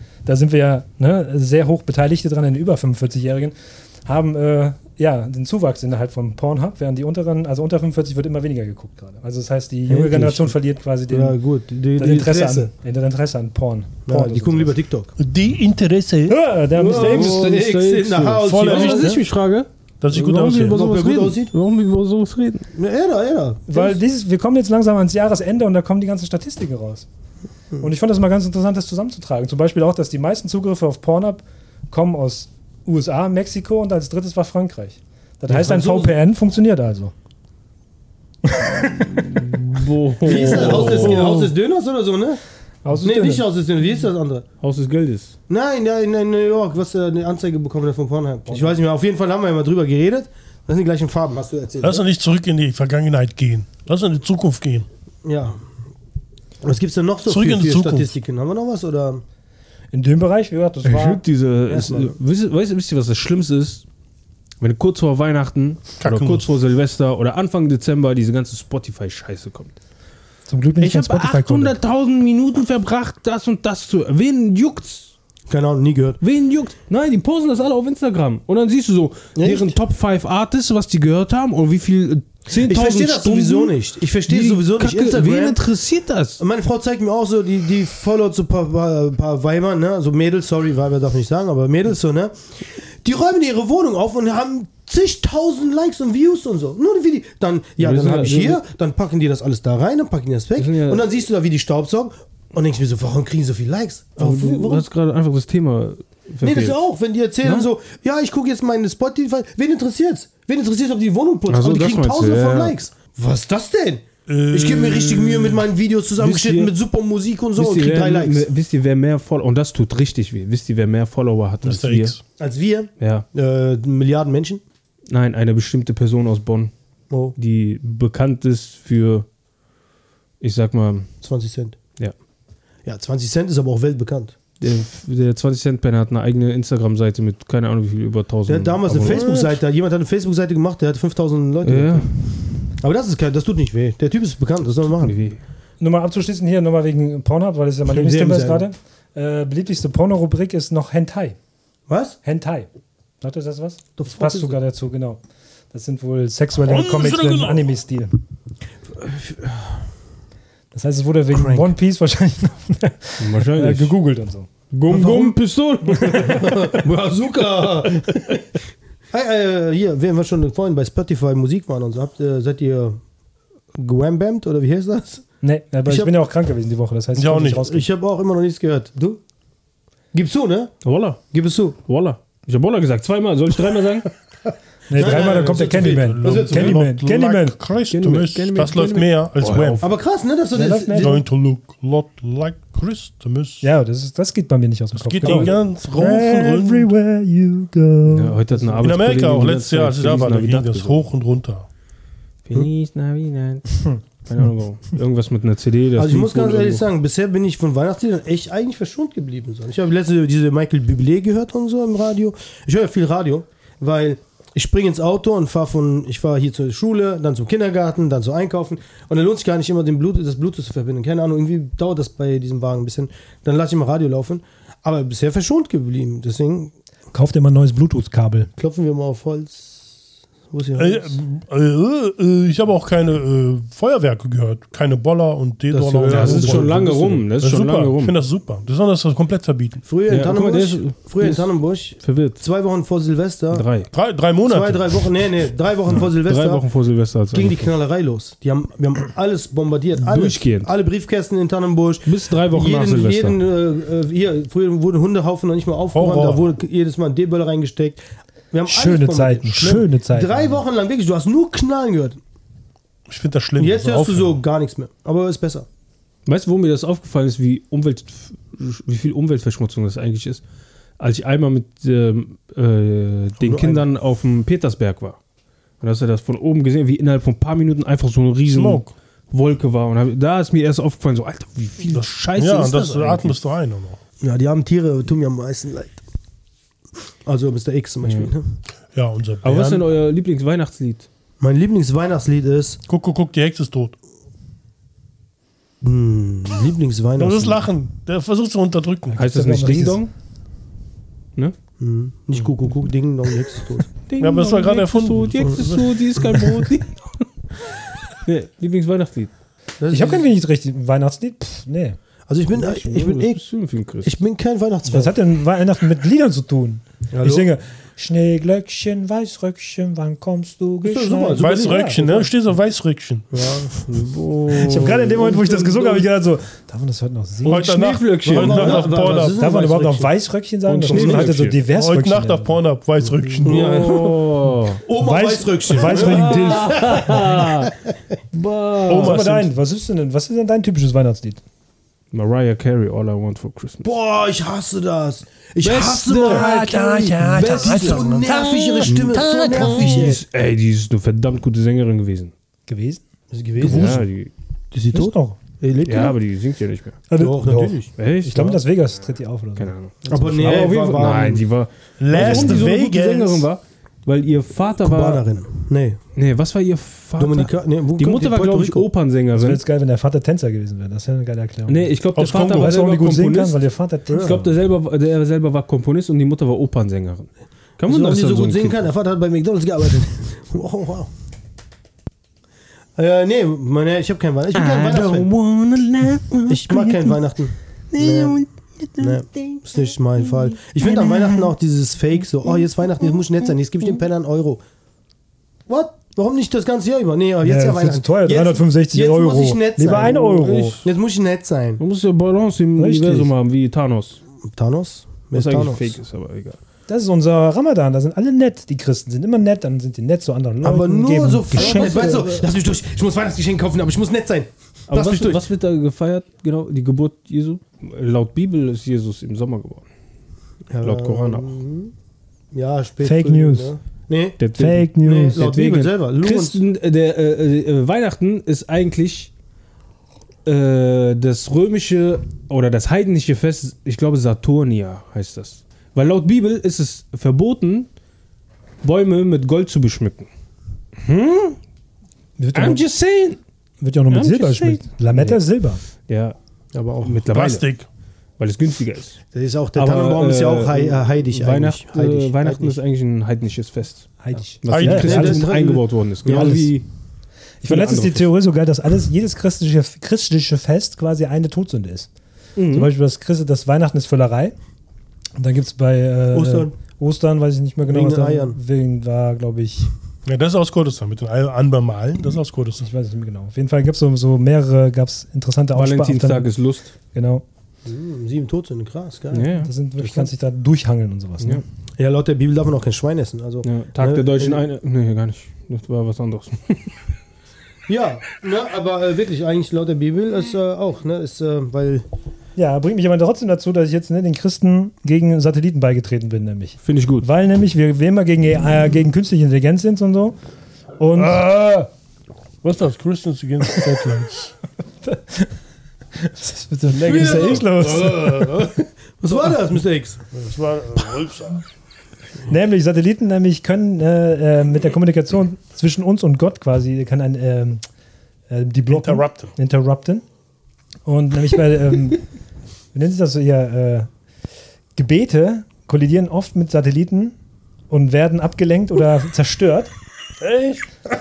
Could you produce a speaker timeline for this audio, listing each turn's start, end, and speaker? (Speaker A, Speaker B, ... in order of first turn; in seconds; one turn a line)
Speaker A: 0.2-11.4
Speaker B: 9.9-12.7
Speaker A: 12.0-14.7
Speaker B: 14.1-15.1
Speaker C: 15.2-16.4
Speaker A: 16.3-17.6
Speaker D: 16.7-22.7
Speaker B: 16.8-19.2
Speaker C: 18.4-19.1
Speaker C: 20.0-20.8
Speaker B: 20.7-21.5
Speaker B: 22.7-24.0
Speaker A: 23.7-27.1
Speaker A: 27.8-37.1
Speaker B: 35.5-36.2
Speaker A: 38.4-39.1
Speaker D: 38.9-41.4
Speaker B: 40.2-42.4
Speaker A: 40.3-41.5
Speaker A: 42.8-43.4
Speaker B: 43.0-44.4
Speaker D: 44.6-45.3
Speaker B: 45.5-52.0
Speaker C: 51.8-54.9
Speaker B: 55.2-55.6
Speaker B: 56.6-59.2
Speaker C: 57.2-58.1
Speaker A: 59.9-61.2
Speaker D: 60.8-63.8
Speaker B: 61.7-62.1
Speaker D: 64.6-69.7
Speaker C: 66.0-66.5
Speaker A: 70.5-71.8
Speaker D: 70.8-75.1
Speaker B: 75.5-76.2
Speaker D: 76.2-86.4
Speaker B: 79.3-79.8
Speaker B: 82.5-85.6
Speaker B: 86.4-104.8
Speaker D: 97.8-98.6
Speaker D: 100.6-101.0
Speaker D: 104.2-106.8
Speaker B: 106.4-118.4
Speaker D: 111.5-112.8
Speaker C: 114.3-115.6
Speaker D: 116.2-116.7
Speaker D: 117.5-122.1
Speaker C: 121.6-122.2
Speaker B: 122.4-124.6
Speaker D: 123.0-123.2
Speaker D: 125.1-126.7
Speaker D: 127.3-129.2
Speaker D: 130.4-131.1
Speaker B: 131.2-131.8
Speaker B: 132.8-134.3
Speaker D: 134.6-139.4
Speaker B: 138.5-142.1
Speaker A: 139.0-139.5
Speaker D: 141.6-142.4
Speaker B: 142.7-145.2
Speaker D: 145.0-145.4
Speaker A: 145.8-151.3
Speaker B: 147.8-148.6
Speaker B: 151.9-152.2
Speaker A: 152.2-152.7
Speaker A: 153.2-155.2
Speaker B: 154.0-154.6
Speaker A: 155.7-158.2
Speaker C: 156.6-157.8
Speaker B: 159.0-159.8
Speaker A: 160.7-164.5
Speaker B: 161.3-161.7
Speaker D: 163.2-163.9
Speaker D: 164.7-166.5
Speaker B: 164.9-165.4
Speaker B: 166.0-168.4
Speaker B: 169.1-173.0
Speaker B: 173.7-175.2
Speaker A: 175.4-177.9
Speaker B: 175.8-176.1
Speaker C: 177.1-177.7
Speaker B: 177.6-179.2
Speaker B: 180.1-180.7
Speaker D: 180.8-181.2
Speaker B: 181.3-181.8
Speaker D: 181.8-184.1
Speaker A: 184.9-187.6
Speaker B: 184.9-186.8
Speaker C: 185.1-189.8
Speaker D: 187.9-189.9
Speaker B: 189.8-191.2
Speaker A: 190.5-191.2
Speaker C: 190.9-193.6
Speaker A: 193.6-198.8
Speaker C: 194.9-196.9
Speaker D: 195.2-195.5
Speaker D: 198.1-201.0
Speaker C: 198.8-201.7
Speaker D: 202.4-206.8
Speaker B: 206.0-226.7
Speaker A: 227.1-228.5
Speaker B: 228.6-229.9
Speaker B: 230.5-231.2
Speaker C: 230.8-239.8
Speaker B: 235.7-237.2
Speaker D: 236.1-238.2
Speaker B: 239.8-243.7
Speaker D: 240.1-242.4
Speaker D: 243.5-243.9
Speaker C: 243.9-245.0
Speaker B: 244.4-246.6
Speaker D: 246.2-247.7
Speaker B: 247.3-262.2
Speaker D: 250.0-250.7
Speaker D: 252.0-253.4
Speaker C: 255.9-256.4
Speaker A: 258.7-260.6
Speaker C: 263.1-264.4
Speaker B: 263.6-265.7
Speaker D: 266.2-270.4
Speaker D: 271.0-275.2
Speaker B: 273.4-273.9
Speaker D: 275.8-283.4
Speaker C: 278.4-278.9
Speaker C: 281.9-284.0
Speaker B: 284.2-286.0
Speaker B: 287.2-288.5
Speaker D: 288.0-288.3
Speaker C: 288.9-289.9
Speaker D: 289.4-291.1
Speaker B: 291.4-292.8
Speaker C: 292.9-293.9
Speaker B: 295.8-297.6
Speaker C: 297.2-299.2
Speaker A: 299.1-300.0
Speaker D: 299.2-300.1
Speaker B: 301.8-303.9
Speaker D: 304.1-309.3
Speaker C: 304.2-306.0
Speaker B: 309.8-310.3
Speaker A: 309.9-312.0
Speaker B: 312.3-313.5
Speaker D: 312.5-314.1
Speaker B: 314.0-315.1
Speaker A: 314.9-322.0
Speaker B: 317.1-317.5
Speaker B: 320.8-322.3
Speaker C: 321.4-323.5
Speaker B: 323.3-323.9
Speaker D: 323.9-326.0
Speaker A: 324.6-327.7
Speaker D: 327.4-328.9
Speaker C: 327.4-329.4
Speaker B: 328.2-330.1
Speaker A: 329.3-332.6
Speaker D: 330.6-331.6
Speaker B: 330.9-331.3
Speaker C: 331.7-333.9
Speaker D: 333.4-334.8
Speaker B: 333.4-337.9
Speaker A: 335.0-337.2
Speaker D: 335.8-337.7
Speaker D: 338.3-339.2
Speaker C: 338.9-339.5
Speaker A: 338.9-341.4
Speaker D: 342.1-343.9
Speaker B: 343.8-346.6
Speaker D: 345.6-348.0
Speaker C: 346.1-349.7
Speaker B: 347.6-350.2
Speaker A: 348.8-350.1
Speaker D: 348.9-352.3
Speaker A: 352.7-353.0
Speaker B: 353.3-354.0
Speaker D: 353.6-354.3
Speaker C: 353.6-354.1
Speaker B: 354.7-356.2
Speaker A: 354.9-355.4
Speaker D: 355.9-357.0
Speaker A: 357.1-360.7
Speaker B: 357.1-357.9
Speaker D: 357.9-358.6
Speaker D: 359.6-365.2
Speaker B: 360.1-361.4
Speaker C: 362.0-363.5
Speaker B: 362.2-362.4
Speaker B: 364.8-366.0
Speaker D: 366.1-369.6
Speaker B: 367.2-368.9
Speaker A: 369.3-374.5
Speaker D: 371.6-373.6
Speaker C: 372.1-372.8
Speaker B: 374.1-374.4
Speaker D: 374.1-378.8
Speaker B: 377.8-381.1
Speaker B: 382.9-385.3
Speaker D: 384.5-387.2
Speaker B: 386.5-388.4
Speaker D: 387.9-391.4
Speaker B: 389.0-394.6
Speaker D: 392.4-393.2
Speaker B: 395.7-401.8
Speaker A: 397.4-400.8
Speaker D: 400.0-400.8
Speaker D: 401.8-404.2
Speaker A: 402.8-403.3
Speaker B: 404.5-405.9
Speaker D: 405.3-406.6
Speaker A: 406.9-412.4
Speaker B: 410.6-415.4
Speaker D: 411.5-412.3
Speaker D: 414.9-419.9
Speaker B: 420.7-421.9
Speaker D: 420.8-421.5
Speaker B: 422.5-424.4
Speaker A: 423.0-423.7
Speaker D: 424.4-429.3
Speaker A: 424.5-425.4
Speaker B: 425.0-426.6
Speaker D: 430.4-437.9
Speaker D: 438.8-440.3
Speaker D: 441.0-441.6
Speaker A: 442.4-442.8
Speaker D: 442.5-443.4
Speaker A: 443.8-445.8
Speaker D: 444.1-445.4
Speaker D: 446.0-446.4
Speaker B: 446.7-447.2
Speaker D: 447.0-447.6
Speaker C: 447.3-447.9
Speaker D: 448.4-449.2
Speaker B: 449.3-452.8
Speaker D: 449.7-456.9
Speaker A: 454.2-455.6
Speaker C: 454.7-455.2
Speaker B: 455.0-456.6
Speaker A: 456.3-456.7
Speaker A: 457.6-462.1
Speaker D: 457.6-458.3
Speaker D: 462.6-462.9
Speaker A: 462.7-464.5
Speaker A: 465.4-469.9
Speaker B: 466.3-466.7
Speaker B: 467.9-468.6
Speaker C: 470.2-472.9
Speaker A: 472.8-476.5
Speaker D: 475.7-476.9
Speaker A: 477.1-477.4
Speaker B: 477.9-480.3
Speaker D: 479.3-479.7
Speaker A: 479.6-481.6
Speaker B: 482.0-484.6
Speaker D: 483.6-486.9
Speaker B: 487.9-492.0
Speaker A: 492.6-500.4
Speaker D: 496.8-497.2
Speaker A: 501.0-501.4
Speaker C: 501.1-501.9
Speaker C: 502.6-504.5
Speaker A: 505.0-505.5
Speaker A: 506.2-508.6
Speaker C: 506.9-508.7
Speaker B: 507.1-507.7
Speaker B: 509.2-510.2
Speaker C: 510.3-511.6
Speaker A: 512.5-517.8
Speaker A: 518.5-520.2
Speaker C: 518.9-519.5
Speaker A: 521.0-522.2
Speaker A: 522.9-524.1
Speaker A: 524.9-527.3
Speaker A: 527.9-529.9
Speaker C: 530.4-530.8